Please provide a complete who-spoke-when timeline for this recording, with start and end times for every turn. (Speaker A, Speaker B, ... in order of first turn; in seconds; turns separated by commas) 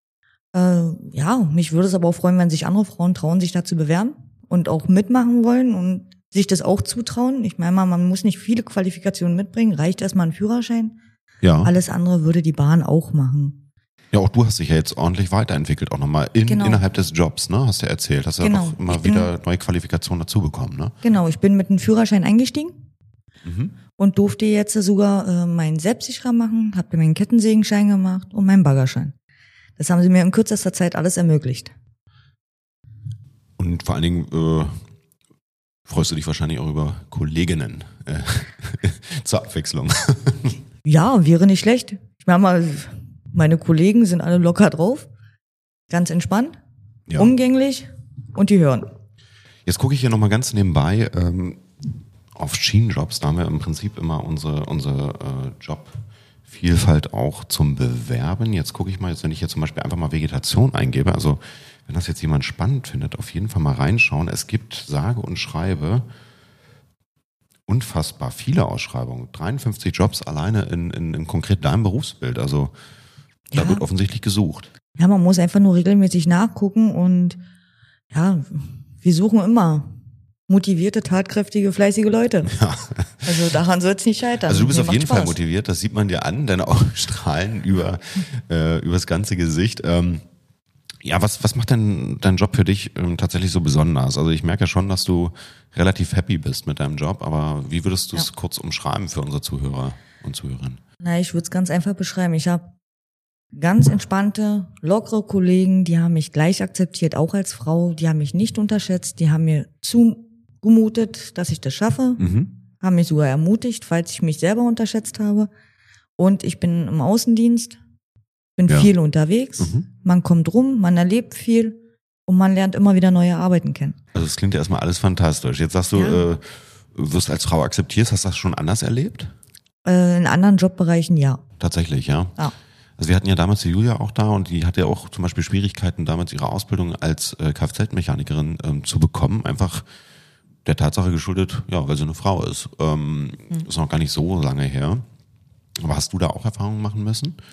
Speaker A: 0.5-11.0, Speaker B: 11.4-11.7, Speaker A: 11.6-13.6, Speaker B: 14.1-20.9, Speaker A: 16.5-16.8, Speaker A: 18.4-19.3, Speaker A: 21.0-22.7, Speaker B: 23.4-23.7, Speaker A: 24.0-29.1, Speaker A: 29.8-31.7, Speaker B: 33.6-34.8, Speaker B: 35.9-40.5, Speaker A: 40.8-45.1, Speaker A: 45.9-46.6, Speaker B: 47.1-47.3, Speaker A: 47.2-48.9, Speaker B: 49.6-51.6, Speaker B: 52.3-66.0, Speaker B: 67.7-72.7, Speaker A: 73.5-73.8, Speaker B: 73.5-74.7, Speaker A: 75.0-77.4, Speaker A: 78.1-80.0, Speaker A: 80.5-82.5, Speaker B: 82.5-83.3, Speaker A: 83.2-85.4, Speaker B: 84.5-90.2, Speaker B: 91.0-100.8, Speaker A: 101.0-102.7, Speaker A: 103.5-112.2, Speaker B: 112.2-112.5, Speaker A: 112.8-115.5, Speaker A: 116.2-117.8, Speaker A: 118.6-124.0, Speaker B: 119.6-119.8, Speaker B: 124.1-129.3, Speaker A: 125.9-126.2, Speaker A: 129.8-131.4, Speaker B: 131.6-132.4, Speaker B: 133.0-139.8, Speaker B: 140.6-145.0, Speaker B: 145.8-147.4